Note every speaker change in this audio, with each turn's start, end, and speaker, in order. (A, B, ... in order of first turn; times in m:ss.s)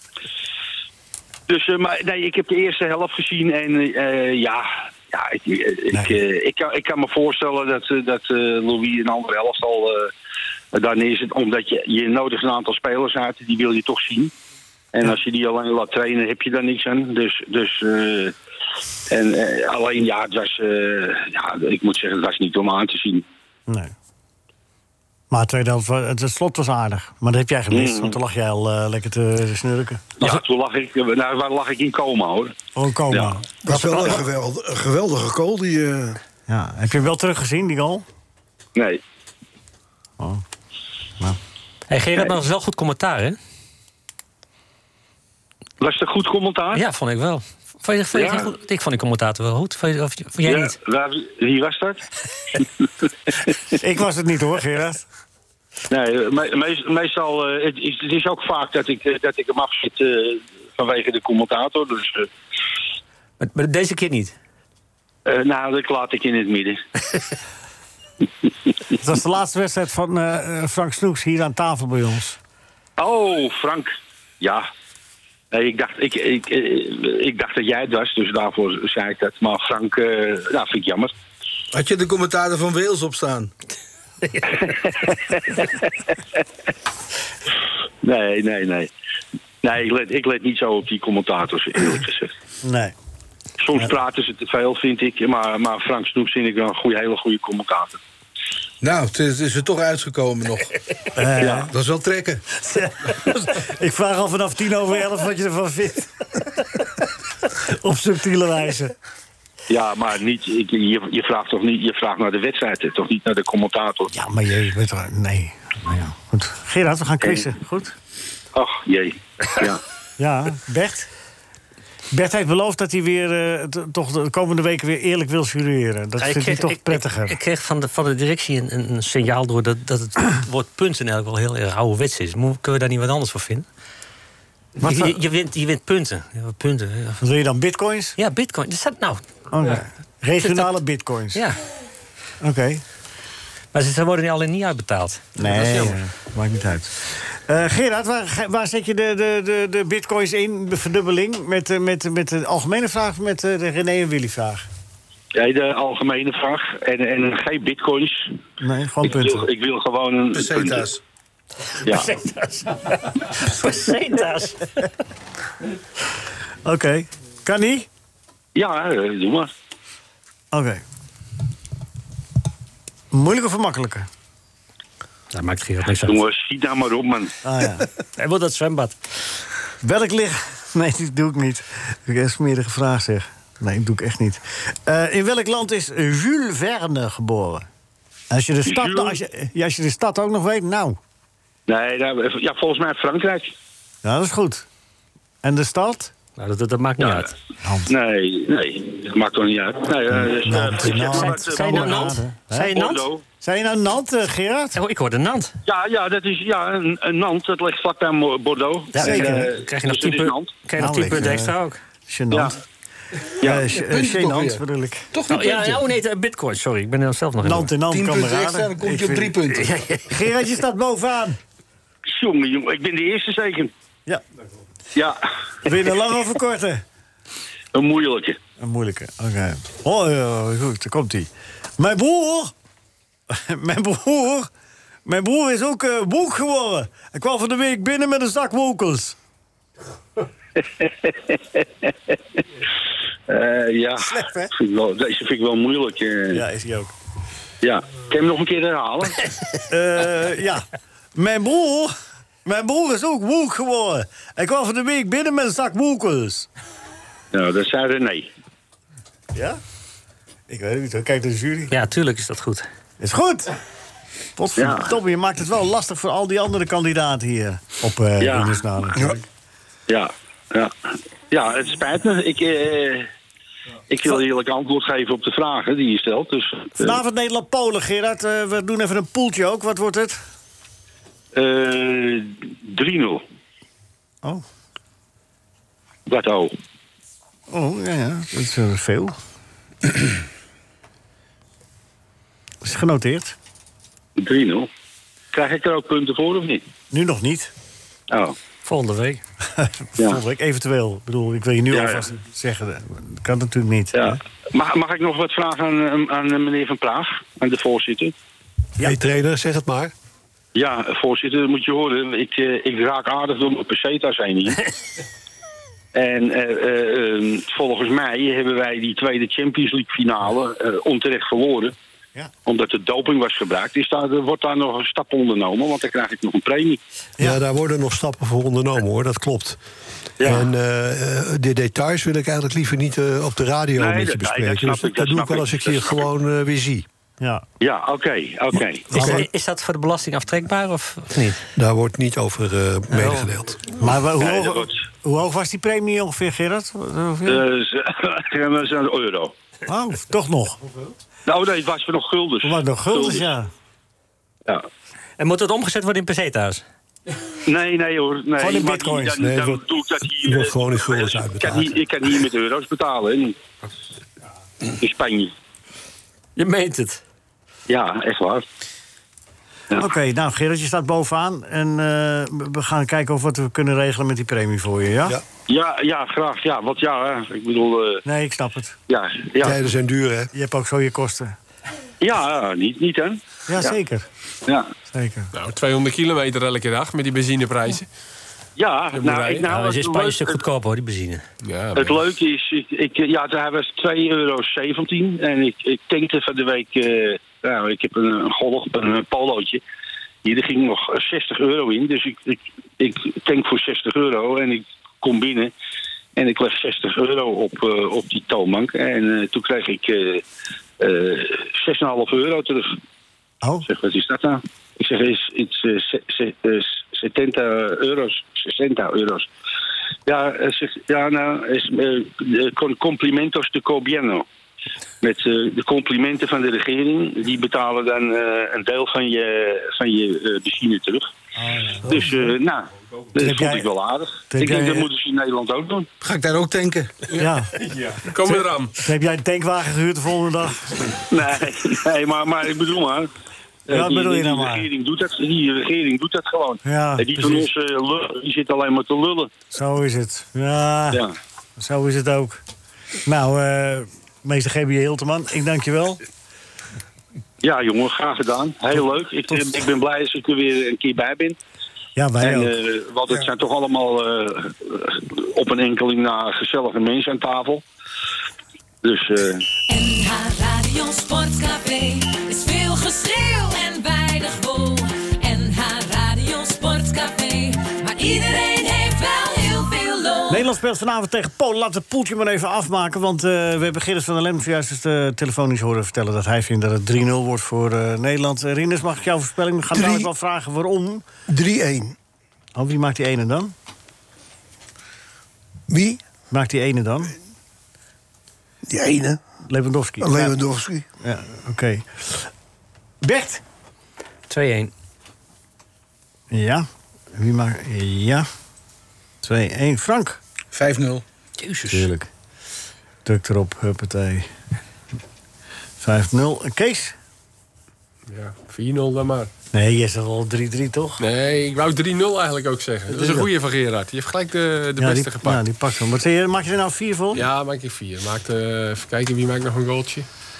0:01.5-0:10.1 A
0:05.9-0:06.2 B
0:10.7-0:14.3 A
0:14.9-0:18.4 A
0:19.1-0:23.2 A
0:23.7-0:23.9 B
0:25.3-0:30.3 B
0:27.7-0:28.2 A
0:30.2-0:32.6 A
0:32.8-0:34.2 B
0:33.1-0:33.4 A
0:33.6-0:36.2 C
0:36.5-0:38.0 B
0:38.8-0:39.0 A
0:41.9-0:43.4 D
0:45.8-0:46.8 A
0:46.8-0:50.8 D
0:48.1-0:48.5 A
0:50.4-0:52.0 A
0:53.7-0:55.0 B
0:55.9-1:02.3 A
1:03.4-1:04.4 D
1:05.3-1:06.8 A
1:09.0-1:12.4 B
1:13.0-1:14.7 A
1:15.5-1:21.1 A
1:21.7-1:23.5 E
1:24.3-1:24.7 D
1:24.6-1:26.1 A
1:28.0-1:28.9 A
1:29.6-1:32.3 A
1:32.6-1:32.9 B
1:33.6-1:38.0 A
1:38.8-1:40.7 E
1:41.2-1:41.7 B
1:41.4-1:41.7 A
1:41.7-1:42.4 E
1:42.6-1:46.8 B
1:47.6-1:48.9 B
1:49.7-1:54.1 A
1:54.1-1:58.0 B
1:57.2-1:57.5 A
1:58.6-1:59.8 A
2:00.2-2:01.1 B
2:02.1-2:07.4 B
2:06.2-2:13.7 D
2:14.8-2:17.2 D
2:14.8-2:15.2 B
2:17.2-2:18.2 B
2:18.2-2:19.8 D
2:19.5-2:21.5 B
2:20.4-2:20.8 D
2:22.4-2:22.8 B
2:23.7-2:25.9 D
2:25.4-2:34.7 B
2:35.4-2:38.4 A
2:38.6-2:39.5 B
2:39.0-2:40.9 A
2:40.3-2:41.0 E
2:41.9-2:43.3 B
2:43.4-2:44.6 D
2:46.7-2:47.9 B
2:48.6-2:49.5 A
2:50.5-2:50.8 B
2:53.1-2:54.1 B
2:55.3-2:56.2 D
2:55.9-2:57.3 A
2:57.4-2:57.9 B
2:58.2-2:59.0 D
2:59.8-3:07.7 B
3:08.3-3:11.0 B
3:08.6-3:09.2 A
3:11.7-3:13.5 A
3:14.0-3:14.7 B
3:15.4-3:16.1 B
3:16.4-3:17.3 D
3:17.6-3:17.9 B
3:17.9-3:22.1 A
3:20.2-3:22.8 B
3:21.0-3:23.1 D
3:22.8-3:23.2 A
3:23.4-3:24.8 B
3:24.7-3:25.5 D
3:25.6-3:30.6 A
3:29.0-3:29.5 B
3:29.0-3:31.8 D
3:30.8-3:32.6 B
3:32.3-3:32.6 A
3:33.4-3:35.1 B
3:33.7-3:34.6 E
3:35.1-3:35.8 E
3:35.3-3:37.8 D
3:37.4-3:39.4 B
3:37.8-3:39.7 E
3:39.6-3:40.2 D
3:40.1-3:41.4 B
3:42.1-3:43.7 A
3:45.0-3:45.8 A
3:45.6-3:46.8 B
3:47.7-3:48.4 A
3:48.6-3:52.5 B
3:53.3-3:54.5 B
3:55.1-3:59.2 B
4:00.6-4:02.2 A
4:03.3-4:06.4 A
4:04.0-4:04.5 B
4:06.3-4:06.9 B
4:07.6-4:09.2 A
4:09.7-4:11.9 B
4:12.4-4:16.5 B
4:17.3-4:18.3 A
4:19.3-4:19.6 B
4:20.5-4:21.8 B
4:21.7-4:22.7 D
4:23.0-4:23.5 B
4:24.4-4:29.2 B
4:24.6-4:24.9 A
4:28.2-4:28.7 A
4:29.9-4:30.7 A
4:31.3-4:33.1 A
4:33.9-4:37.0 A
4:36.8-4:40.2 B
4:41.3-4:43.2 A
4:46.1-4:46.5 A
4:47.5-4:49.2 B
4:52.6-4:53.4 B
4:54.2-4:54.7 A
4:55.3-4:56.6 A
4:56.9-4:57.5 B
4:58.1-4:58.4 A
4:58.6-4:59.2 D
4:59.6-5:04.2 B
5:01.7-5:02.1 A
5:03.9-5:08.1 A
5:08.8-5:09.9 F
5:10.6-5:14.6 A
5:15.9-5:21.7 A
5:22.4-5:26.8 A
5:27.2-5:29.6 F
5:30.2-5:36.9 F
5:30.2-5:30.5 A
5:33.8-5:36.1 A
5:37.6-5:38.9 A
5:38.9-5:39.2 B
5:39.0-5:41.4 D
5:41.6-5:43.6 F
5:43.0-5:43.3 D
5:43.8-5:47.5 B
5:44.2-5:44.8 A
5:47.3-5:49.3 A
5:49.7-5:50.6 B
5:51.3-5:53.3 A
5:52.4-5:53.5 B
5:55.2-5:56.6 D
5:57.5-6:03.4 A
5:58.4-5:59.3 B
5:59.2-5:59.6 F
6:00.2-6:02.2 F
6:04.7-6:05.3 A
6:06.4-6:07.0 D
6:07.7-6:08.4 A
6:09.8-6:15.2 B
6:15.5-6:18.0 A
6:18.0-6:18.8 B
6:18.9-6:19.6 A
6:19.4-6:20.3 F
6:20.3-6:21.4 B
6:22.0-6:23.8 A
6:23.5-6:24.1 B
6:24.9-6:25.3 B
6:25.3-6:27.9 G
6:28.6-6:30.4 A
6:28.9-6:29.5 G
6:29.5-6:31.2 D
6:31.4-6:32.0 G
6:31.8-6:39.6 A
6:40.2-6:45.5 A
6:46.2-6:50.2 A
6:50.8-6:52.8 A
6:53.4-6:53.7 B
6:53.7-6:59.3 A
7:00.1-7:04.3 A
7:05.0-7:11.1 A
7:11.4-7:12.3 B
7:11.9-7:15.9 A
7:13.2-7:13.7 B
7:14.3-7:14.9 B
7:16.0-7:16.9 E
7:17.2-7:17.5 B
7:17.6-7:18.7 G
7:18.3-7:20.9 B
7:21.1-7:23.1 A
7:23.7-7:29.3 A
7:23.7-7:24.7 B
7:26.6-7:27.5 B
7:29.5-7:31.0 B
7:31.6-7:32.4 B
7:33.1-7:36.0 B
7:37.4-7:41.4 A
7:42.0-7:42.6 B
7:42.2-7:47.6 A
7:48.8-7:49.5 A
7:49.7-8:00.5 H
8:00.3-8:11.0 B
8:09.8-8:10.1 C
8:11.3-8:12.0 C
8:12.6-8:13.5 B
8:15.7-8:16.0 C
8:16.3-8:17.2 B
8:18.7-8:19.2 C
8:19.4-8:20.4 B
8:20.0-8:20.8 C
8:21.0-8:22.3 B
8:23.0-8:23.4 B
8:24.3-8:24.7 D
8:26.3-8:28.3 B
8:29.2-8:30.2 B
8:30.5-8:31.9 E
8:31.7-8:32.1 B
8:33.0-8:34.3 B
8:35.8-8:37.0 B
8:38.1-8:39.3 G
8:39.5-8:41.0 B
8:41.0-8:45.4 G
8:42.9-8:43.3 B
8:44.8-8:47.2 B
8:47.1-8:50.1 G